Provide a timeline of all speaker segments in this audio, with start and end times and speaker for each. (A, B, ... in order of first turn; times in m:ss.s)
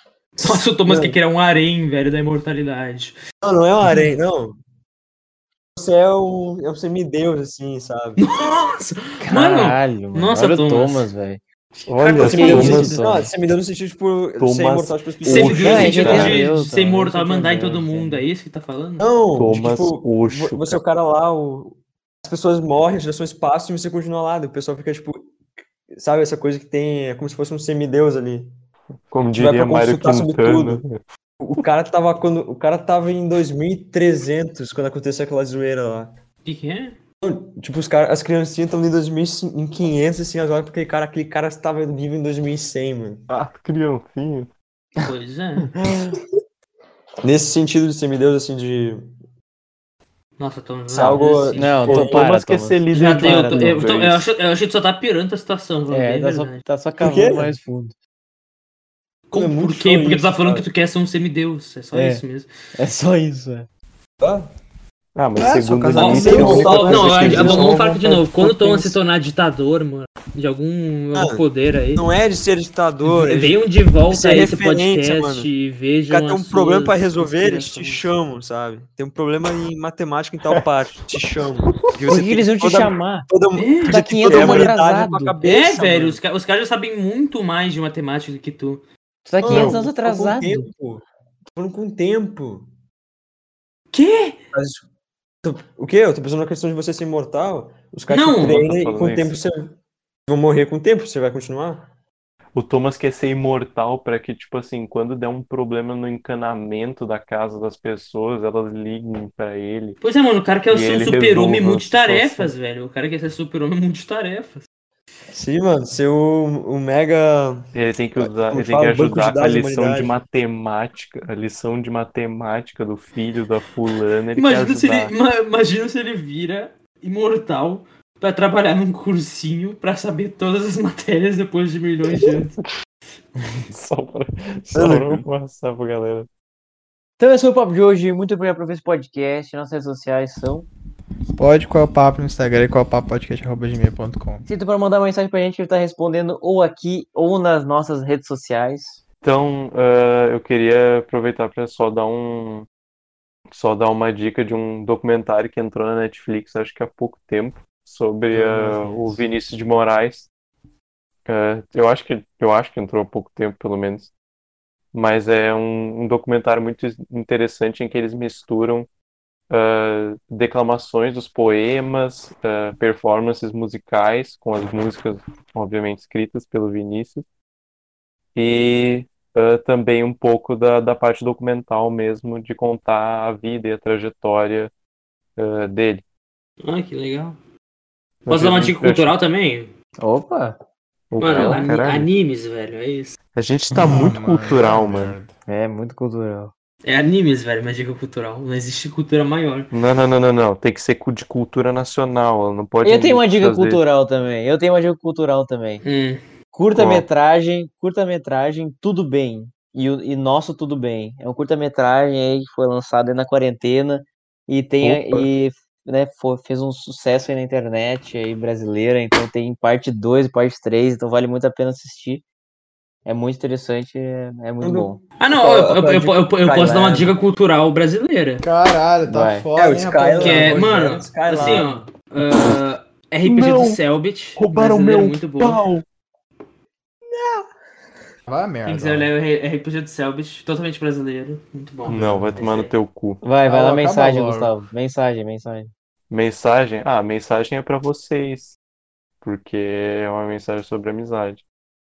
0:00.4-0:01.2 A
0:00.4-0:03.2 B
0:03.4-0:04.6 A
0:05.8-0:08.2 A
0:08.2-0:11.1 B
0:09.2-0:11.4 C
0:11.8-0:12.8 B
0:11.9-0:13.0 D
0:12.1-0:16.4 A
0:12.2-0:13.3 C
0:14.4-0:16.4 D
0:15.2-0:19.1 B
0:15.6-0:18.2 C
0:19.0-0:25.4 A
0:19.4-0:20.8 D
0:25.9-0:28.5 A
0:29.1-0:31.0 D
0:29.4-0:30.8 A
0:31.4-0:36.1 A
0:36.4-0:37.0 B
0:37.2-0:43.2 A
0:43.3-0:44.5 D
0:45.0-0:45.7 B
0:45.8-0:46.2 C
0:47.2-0:49.1 A
0:50.4-0:51.8 B
0:50.9-0:52.2 A
0:51.6-0:53.9 C
0:51.9-0:54.3 D
0:52.9-0:56.6 B
0:55.9-0:58.0 C
0:57.0-0:57.5 A
0:59.3-1:02.5 B
0:59.3-1:00.7 A
1:01.9-1:02.2 C
1:02.8-1:03.7 C
1:04.2-1:04.5 A
1:05.2-1:08.8 D
1:05.4-1:06.8 E
1:06.0-1:12.1 B
1:06.3-1:07.8 A
1:11.1-1:11.4 A
1:12.0-1:15.5 A
1:13.0-1:18.1 B
1:16.1-1:26.2 A
1:20.6-1:20.9 D
1:22.1-1:23.3 C
1:23.5-1:24.0 B
1:23.9-1:25.4 C
1:24.2-1:24.7 D
1:25.4-1:28.8 B
1:29.3-1:30.7 C
1:29.4-1:31.0 A
1:29.5-1:29.8 D
1:31.6-1:32.7 A
1:33.9-1:34.4 B
1:34.5-1:34.8 A
1:35.4-1:39.8 A
1:38.1-1:38.6 B
1:38.4-1:39.4 D
1:40.3-1:41.9 A
1:42.6-1:50.0 D
1:50.0-1:54.6 B
1:50.7-1:52.5 D
1:55.3-1:57.6 A
1:57.7-2:05.1 D
1:58.2-2:00.2 A
2:04.4-2:12.5 B
2:12.2-2:12.7 D
2:13.7-2:16.3 D
2:14.8-2:15.3 A
2:17.2-2:20.7 C
2:21.4-2:24.4 E
2:24.4-2:29.0 C
2:29.2-2:32.7 D
2:33.5-2:40.3 D
2:41.3-2:44.1 D
2:44.9-2:48.9 D
2:49.5-2:57.2 D
2:58.4-3:04.7 D
3:05.4-3:06.0 D
3:06.6-3:07.4 B
3:08.2-3:09.1 D
3:08.3-3:09.7 B
3:10.0-3:10.6 C
3:11.1-3:12.1 D
3:11.2-3:13.2 B
3:11.3-3:11.6 C
3:13.4-3:15.2 D
3:13.8-3:15.4 E
3:15.5-3:16.5 C
3:16.8-3:19.7 B
3:19.7-3:23.8 D
3:22.8-3:25.8 C
3:25.8-3:26.2 B
3:26.5-3:42.2 C
3:26.7-3:27.1 D
3:34.8-3:35.3 D
3:43.1-3:45.0 C
3:44.6-3:47.2 A
3:45.2-3:48.5 B
3:48.4-3:50.6 E
3:49.0-3:49.5 C
3:49.6-3:51.8 A
3:50.2-3:55.6 B
3:53.2-3:53.8 D
3:54.4-3:55.8 D
3:57.2-3:57.4 A
3:58.3-3:59.1 E
3:58.7-4:02.7 B
4:01.9-4:03.2 D
4:03.2-4:05.7 C
4:03.4-4:04.5 E
4:06.1-4:08.6 D
4:09.2-4:11.4 D